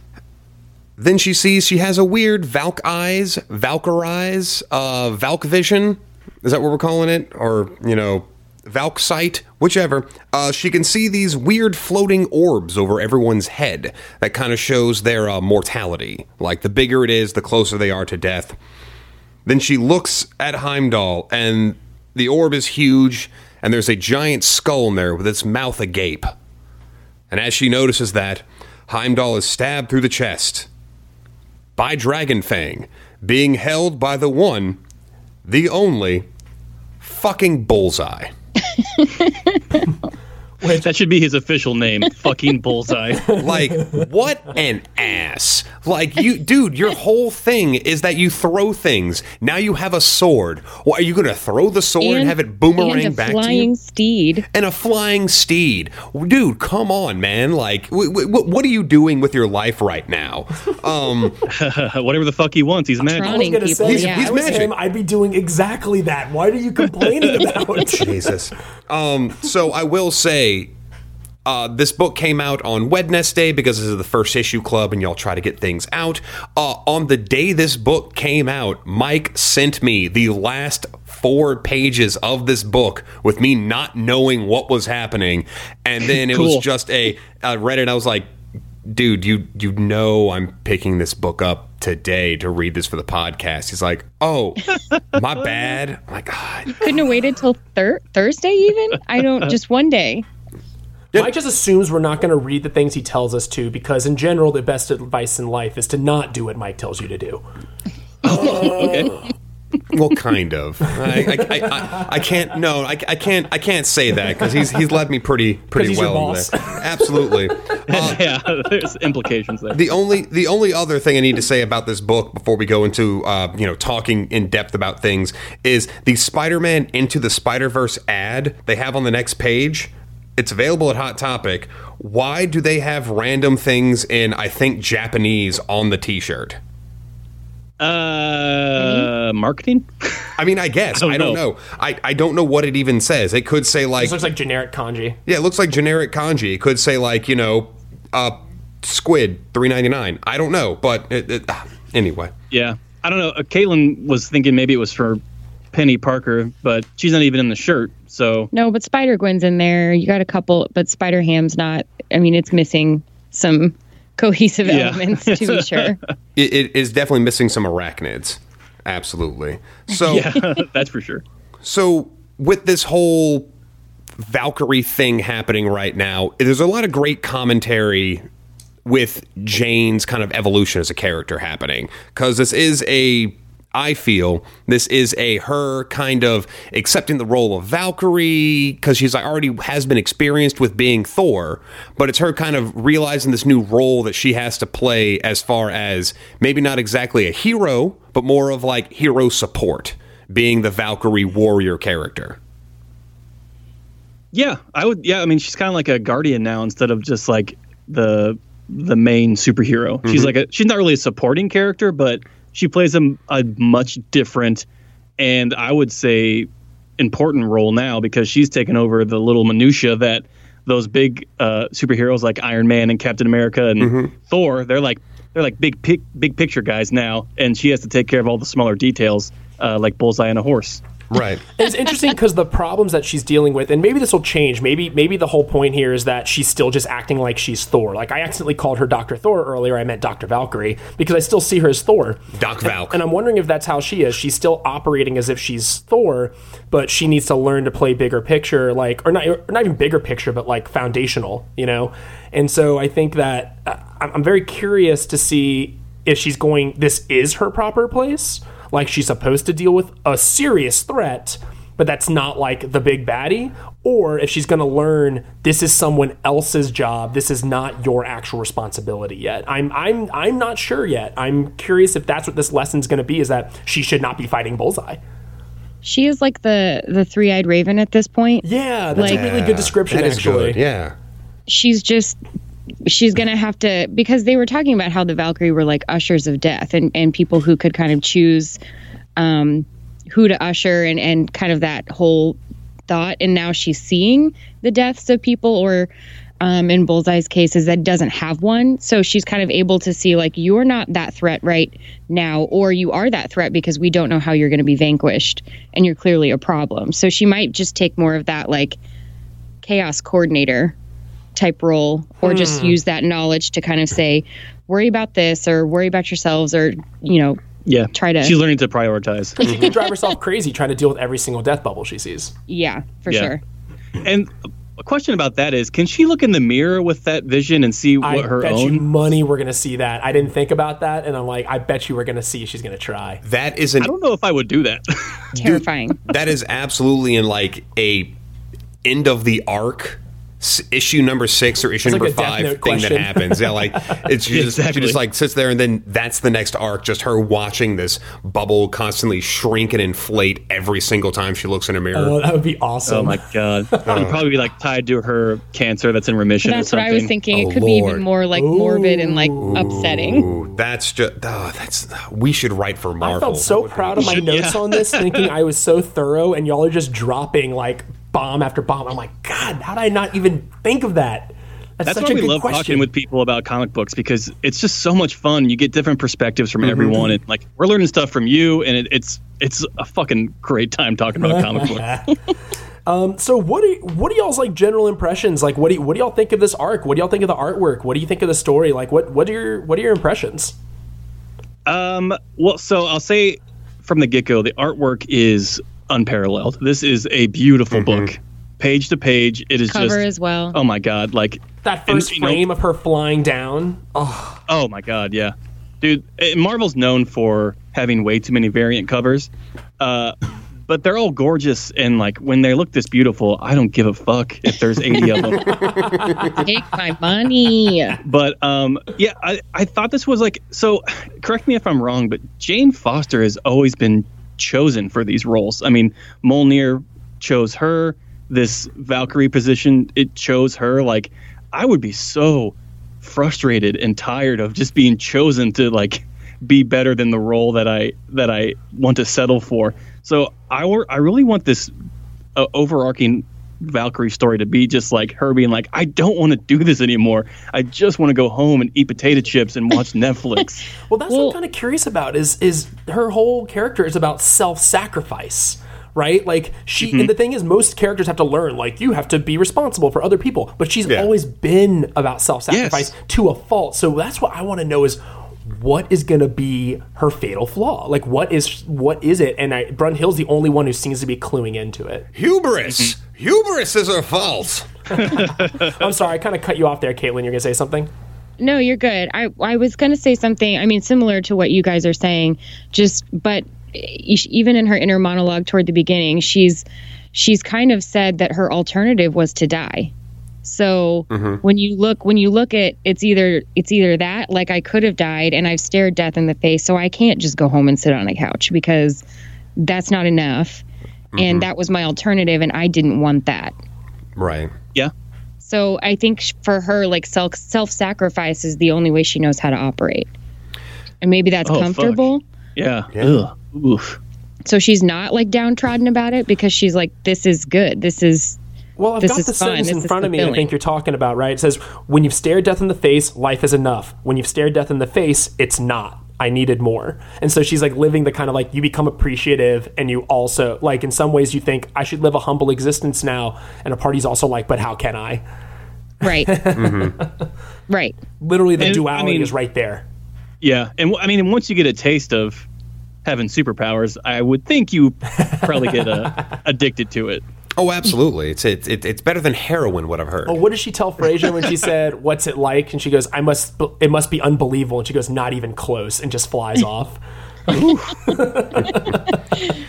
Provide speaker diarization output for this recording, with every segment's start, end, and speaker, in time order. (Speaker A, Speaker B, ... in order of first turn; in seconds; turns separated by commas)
Speaker A: 1.0-18.6, Speaker A: 19.5-26.3, Speaker A: 27.3-30.7, Speaker A: 31.8-34.8, Speaker A: 35.5-36.3, Speaker A: 37.0-38.3, Speaker B: 39.0-39.8, Speaker C: 40.6-43.3, Speaker D: 43.3-44.0, Speaker A: 43.4-53.7, Speaker B: 52.0-54.5, Speaker A: 54.5-61.4, Speaker C: 61.5-63.5, Speaker B: 63.0-64.4, Speaker D: 63.2-68.3, Speaker A: 63.8-64.7, Speaker A: 67.9-70.7, Speaker A: 71.5-88.3, Speaker C: 86.3-86.6, Speaker A: 88.9-96.9, Speaker B: 96.8-100.2, Speaker D: 101.1-107.4, Speaker C: 108.2-109.2, Speaker D: 108.2-109.2, Speaker A: 109.9-118.3, Speaker D: 111.5-112.0, Speaker D: 115.7-117.5, Speaker C: 117.9-119.8, Speaker A: 119.7-136.6, Speaker C: 137.8-140.4, Speaker B: 138.8-139.1, Speaker A: 140.4-144.3, Speaker C: 141.0-141.4, Speaker D: 144.0-145.2, Speaker A: 145.3-152.3, Speaker C: 152.5-155.2, Speaker C: 155.7-158.5, Speaker B: 158.5-166.0, Speaker C: 164.7-166.1, Speaker A: 166.4-170.4, Speaker C: 170.0-171.2, Speaker A: 171.6-173.5, Speaker A: 174.2-178.2, Speaker A: 178.9-202.4, Speaker C: 204.3-214.7, Speaker A: 210.1-210.3, Speaker C: 215.2-230.8, Speaker A: 223.8-224.1, Speaker A: 231.1-231.4, Speaker D: 231.6-275.0, Speaker A: 242.3-243.0, Speaker B: 275.8-278.4, Speaker D: 278.4-280.6, Speaker A: 278.9-280.9, Speaker B: 279.0-279.2, Speaker B: 281.5-282.2, Speaker B: 282.9-288.6, Speaker B: 289.2-292.4, Speaker B: 292.9-295.9, Speaker B: 296.4-308.8, Speaker B: 309.6-310.8, Speaker B: 311.4-317.4, Speaker D: 312.2-312.8, Speaker C: 317.7-319.5, Speaker B: 317.9-318.4, Speaker D: 319.4-322.4, Speaker B: 322.5-323.4, Speaker C: 324.0-328.8, Speaker D: 328.0-333.2, Speaker A: 333.2-333.9, Speaker C: 333.8-335.6, Speaker B: 335.4-336.0, Speaker A: 336.1-338.1, Speaker A: 338.9-352.2, Speaker D: 341.9-344.0, Speaker C: 344.3-345.0, Speaker D: 351.9-353.2, Speaker C: 352.9-357.1, Speaker D: 353.7-354.1, Speaker A: 353.9-354.3, Speaker B: 356.4-360.3, Speaker A: 357.3-358.1, Speaker D: 358.3-360.4, Speaker A: 359.4-364.3, Speaker D: 363.0-372.9, Speaker C: 364.0-365.3, Speaker C: 371.8-381.9, Speaker A: 376.6-377.1, Speaker D: 381.2-382.2, Speaker D: 382.9-390.6, Speaker C: 391.7-402.4, Speaker A: 397.7-398.1, Speaker B: 399.7-400.6, Speaker D: 401.6-404.4, Speaker C: 404.5-409.3, Speaker C: 409.8-410.2, Speaker C: 410.7-415.7, Speaker D: 415.3-416.4, Speaker A: 415.5-416.3, Speaker B: 416.4-418.0, Speaker C: 418.0-441.7, Speaker C: 442.4-450.6, Speaker D: 450.9-472.1, Speaker B: 451.1-451.4, Speaker C: 456.8-457.1, Speaker C: 462.5-462.9, Speaker A: 472.1-474.7, Speaker C: 472.7-472.9, Speaker D: 474.9-477.9, Speaker C: 475.0-475.8, Speaker B: 478.4-489.9, Speaker B: 490.4-499.0, Speaker A: 491.1-491.4, Speaker B: 499.6-500.6, Speaker A: 501.1-501.5, Speaker B: 501.2-503.6, Speaker A: 504.2-504.5, Speaker B: 505.4-510.1, Speaker B: 511.0-512.2, Speaker C: 511.5-514.0, Speaker A: 512.9-513.2, Speaker B: 514.5-518.4, Speaker D: 518.8-535.2, Speaker B: 519.0-520.5, Speaker B: 536.0-536.3, Speaker D: 536.0-537.1, Speaker A: 536.5-537.0, Speaker B: 537.7-538.0, Speaker D: 538.2-539.8, Speaker C: 538.6-539.3, Speaker C: 540.4-542.5, Speaker C: 543.0-547.2, Speaker D: 545.2-546.1, Speaker A: 547.6-550.4, Speaker D: 550.3-559.2, Speaker A: 557.5-558.0